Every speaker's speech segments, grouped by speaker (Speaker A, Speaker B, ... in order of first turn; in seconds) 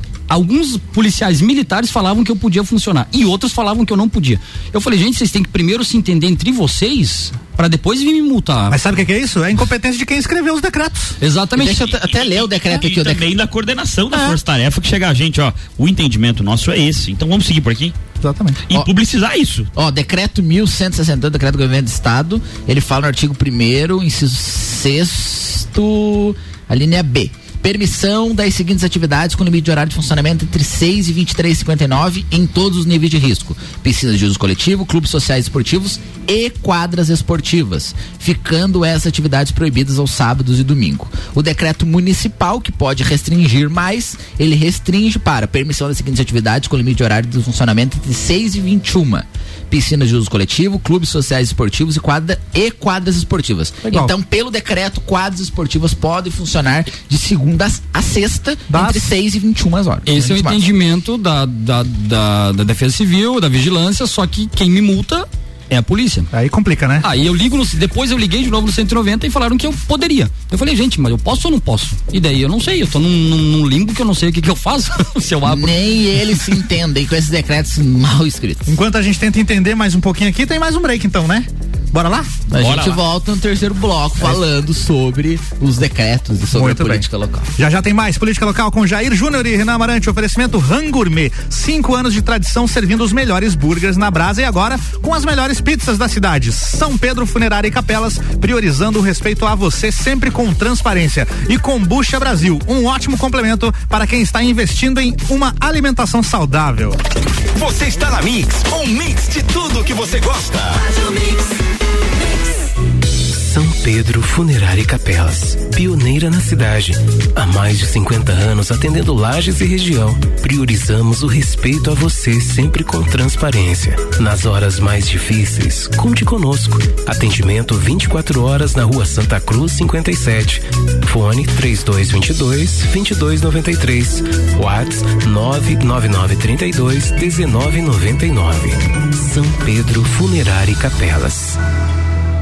Speaker A: 0.3-8.8, 11.2-11.9, 60.1-66.3, 67.0-75.8
Speaker B: 8.7-11.2, 18.2-18.6, 53.9-54.1, 58.7-59.1, 66.3-67.1, 78.7-82.3, 86.5-87.0, 87.6-107.0
Speaker C: 11.6-13.2, 19.8-60.6, 75.5-78.7, 82.5-87.5
Speaker D: 11.8-18.0, 18.7-19.7, 82.6-83.0
Speaker E: 107.6-110.8
Speaker F: 113.3-141.6